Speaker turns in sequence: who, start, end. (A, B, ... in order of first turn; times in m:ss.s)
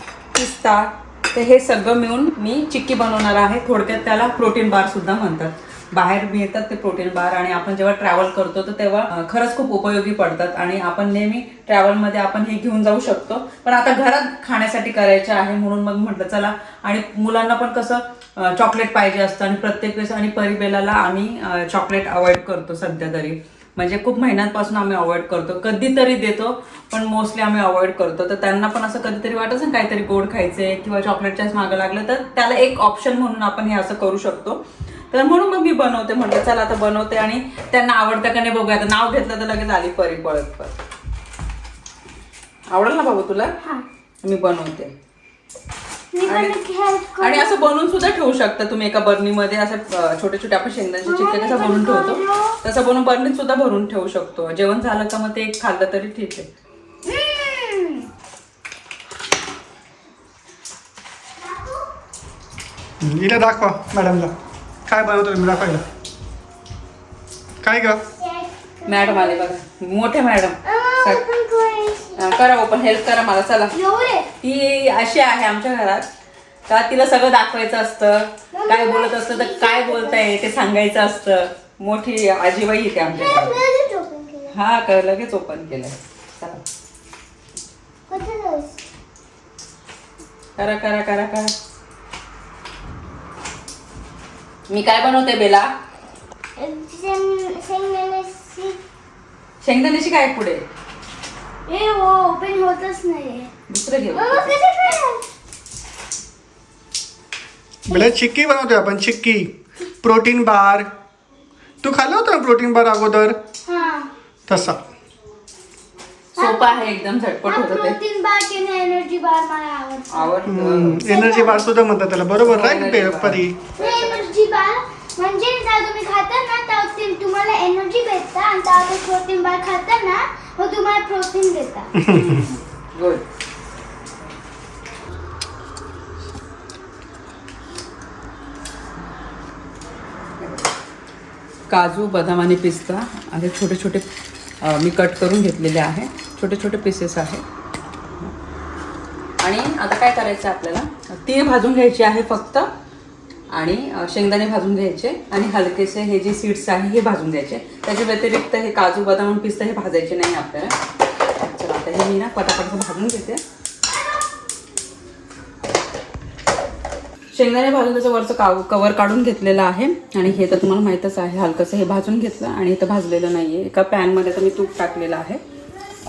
0:00.3-0:40.7 A
0:42.7-0:43.6 A
0:44.2-0:44.9 A
0:46.1-0:47.8 B
0:46.3-0:46.6 A
0:47.2-0:56.5 A
0:51.0-0:52.6 B
0:57.0-0:58.1 B
1:03.0-1:04.3 C
1:04.9-1:05.8 C
1:07.6-1:08.0 C
1:08.2-1:09.5 B
1:08.8-1:11.2 A
1:10.6-1:12.2 B
1:12.2-1:13.8 A
1:13.7-1:14.3 B
1:14.4-1:16.1 A
1:16.7-1:23.6 A
1:18.5-1:20.2 B
1:23.1-1:24.5 B
1:24.5-1:26.6 A
1:28.1-1:28.7 B
1:30.6-1:31.6 A
1:34.7-1:35.7 A
1:36.6-1:38.8 B
1:39.6-1:40.6 A
1:41.7-1:43.5 B
1:43.7-1:44.5 A
1:44.1-1:45.2 B
1:47.9-1:50.9 C
1:51.8-1:53.4 C
1:53.7-1:54.1 B
1:54.5-1:54.8 C
1:56.4-1:58.0 A
1:56.4-2:00.3 B
2:00.1-2:01.0 A
2:00.5-2:03.6 C
2:01.0-2:01.7 B
2:02.4-2:04.3 A
2:03.8-2:11.9 B
2:12.0-2:12.4 C
2:12.0-2:13.2 A
2:20.4-2:20.7 A
2:21.7-2:24.0 A
2:24.6-2:27.4 A
2:29.4-2:32.7 A
2:33.5-2:40.8 A
2:41.4-2:43.4 A
2:47.3-2:55.4 A